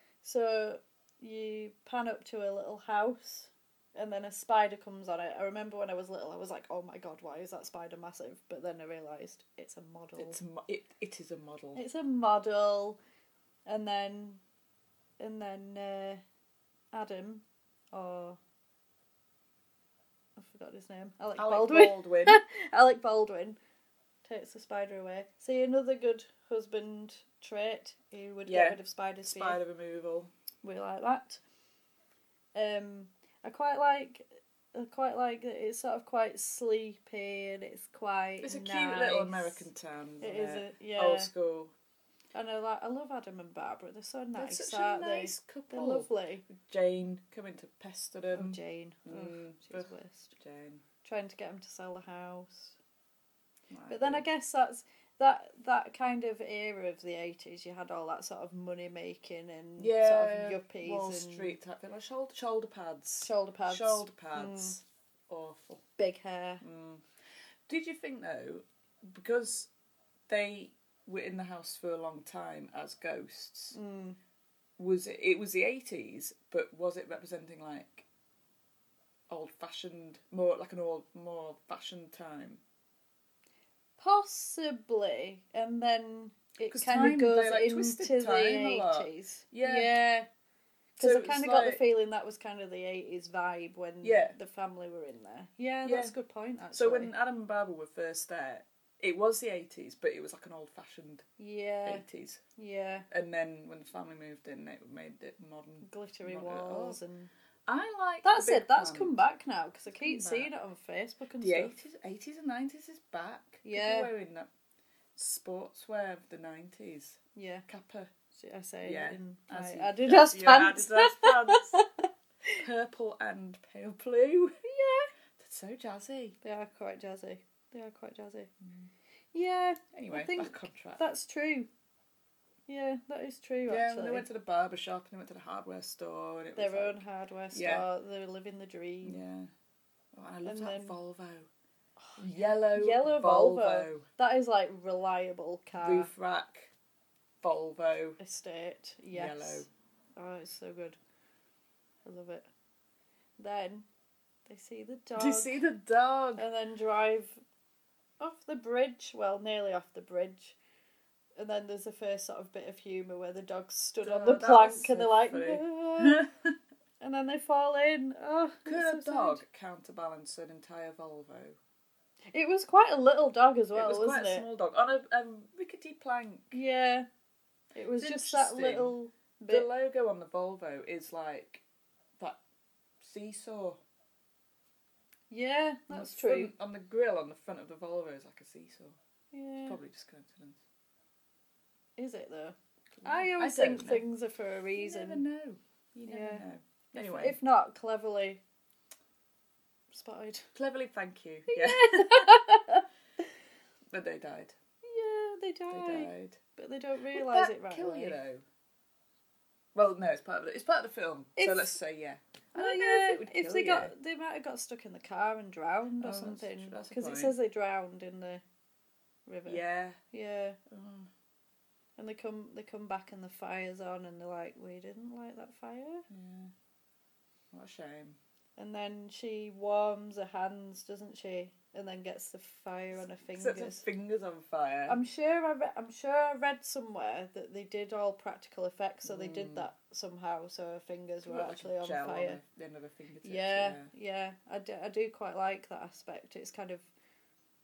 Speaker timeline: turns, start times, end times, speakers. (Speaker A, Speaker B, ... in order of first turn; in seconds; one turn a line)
Speaker A: 0.2-10.4
Speaker B: 10.2-11.8
Speaker A: 11.7-13.0
Speaker A: 13.7-14.4
Speaker A: 15.2-16.2
Speaker A: 16.9-18.4
Speaker A: 20.4-23.6
Speaker B: 21.4-22.4
Speaker A: 24.2-29.6
Speaker B: 28.4-30.3
Speaker A: 30.6-31.4
Speaker A: 32.5-39.7
Speaker B: 38.4-41.7
Speaker A: 40.2-41.3
Speaker A: 42.3-46.4
Speaker B: 44.4-50.8
Speaker A: 48.3-50.3
Speaker A: 51.0-52.7
Speaker B: 53.7-54.2
Speaker A: 53.9-61.6
Speaker B: 59.8-65.8
Speaker A: 63.2-64.8
Speaker A: 66.0-66.6
Speaker B: 66.6-67.0
Speaker B: 67.7-69.7
Speaker B: 70.3-73.7
Speaker A: 73.7-74.2
Speaker B: 74.8-78.0
Speaker B: 79.3-82.6
Speaker A: 84.0-90.3
Speaker B: 86.7-89.9
Speaker A: 91.0-97.1
Speaker B: 91.0-91.8
Speaker B: 94.0-94.3
Speaker B: 95.8-96.1
Speaker B: 96.7-101.2
Speaker A: 101.4-102.0
Speaker B: 101.8-102.4
Speaker A: 102.6-103.1
Speaker B: 103.1-107.0
Speaker A: 105.8-107.3
Speaker B: 107.7-109.2
Speaker A: 108.2-111.7
Speaker B: 109.9-110.5
Speaker B: 111.4-114.5
Speaker A: 113.6-114.1
Speaker B: 115.1-118.1
Speaker A: 117.3-117.7
Speaker A: 118.3-121.9
Speaker B: 118.8-121.8
Speaker B: 122.6-124.5
Speaker A: 124.6-125.1
Speaker B: 125.4-126.4
Speaker A: 126.4-128.5
Speaker B: 128.6-128.9
Speaker A: 129.3-131.7
Speaker B: 129.9-131.0
Speaker A: 132.7-134.2
Speaker B: 133.7-137.0
Speaker A: 136.6-139.2
Speaker B: 137.5-137.8
Speaker B: 139.0-139.5
Speaker B: 140.1-141.5
Speaker A: 140.4-141.0
Speaker A: 142.0-146.1
Speaker B: 142.2-144.1
Speaker B: 145.8-146.7
Speaker B: 147.4-148.2
Speaker A: 148.2-149.7
Speaker B: 149.1-149.7
Speaker A: 150.2-151.0
Speaker A: 152.0-152.5
Speaker A: 153.4-153.8
Speaker A: 154.5-155.5
Speaker B: 155.2-156.4
Speaker A: 156.4-157.4
Speaker A: 158.2-160.6
Speaker A: 161.3-166.2
Speaker B: 164.0-166.3
Speaker A: 167.0-169.4
Speaker B: 168.7-171.6
Speaker A: 172.3-174.4
Speaker B: 173.7-176.6
Speaker A: 176.5-177.1
Speaker A: 177.7-179.7
Speaker B: 178.0-178.9
Speaker B: 179.5-181.6
Speaker B: 183.0-183.8
Speaker A: 185.3-186.5
Speaker B: 185.9-189.0
Speaker A: 189.3-189.8
Speaker B: 189.7-190.6
Speaker A: 192.0-195.2
Speaker B: 193.0-194.1
Speaker B: 194.8-197.4
Speaker A: 196.1-198.4
Speaker A: 199.9-200.4
Speaker B: 200.5-202.4
Speaker A: 201.5-202.8
Speaker B: 203.9-204.5
Speaker A: 204.8-208.2
Speaker B: 205.7-206.4
Speaker B: 207.1-208.4
Speaker B: 209.7-213.9
Speaker A: 211.4-211.8
Speaker A: 212.5-218.4
Speaker B: 216.0-217.3
Speaker A: 219.2-220.6
Speaker B: 219.4-220.0
Speaker B: 220.7-221.1
Speaker A: 222.0-226.0
Speaker B: 226.1-226.5
Speaker B: 227.5-228.2
Speaker A: 228.6-233.8
Speaker B: 233.3-235.0
Speaker A: 234.9-242.4
Speaker B: 239.0-239.7
Speaker B: 241.2-243.9
Speaker A: 243.2-246.9